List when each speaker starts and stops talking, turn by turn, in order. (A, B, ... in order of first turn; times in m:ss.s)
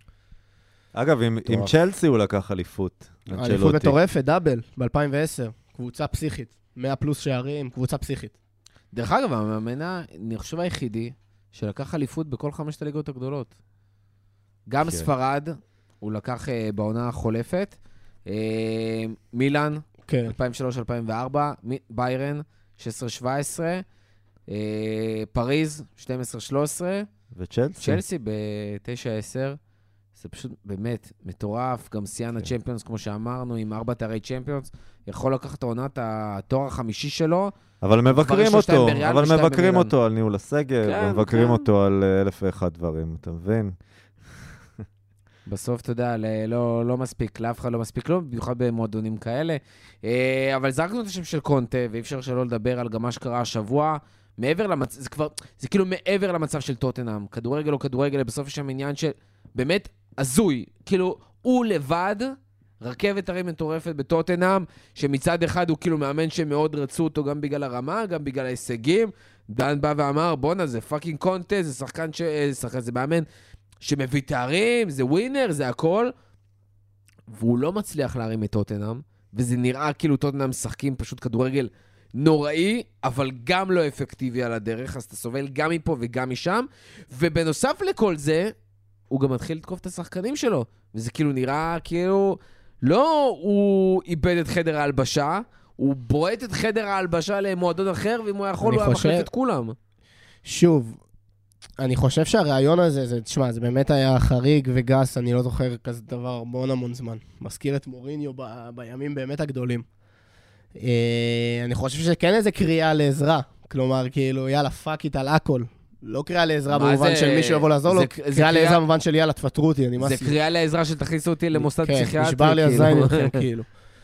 0:00.9-0:04.0 A
0:03.4-0:08.4 B
0:08.9-0:13.5 C
0:14.7-0:23.8 C
0:20.1-0:20.4 B
0:24.5-0:27.1 C
0:27.3-0:28.0 A
0:27.8-0:29.6 C
0:30.2-0:37.5 C
0:37.8-0:43.8 A
0:38.1-0:39.9 C
0:40.8-0:41.7 C
0:45.5-1:13.3 C
1:13.8-1:16.1 C
1:17.3-1:28.5 C
1:29.1-1:39.8 C
1:38.6-1:39.3 B
1:40.4-1:41.0 B
1:41.8-1:49.8 B
1:50.8-2:00.4 B
1:56.7-1:58.8 C
2:00.0-2:03.4 C
2:01.6-2:03.7 B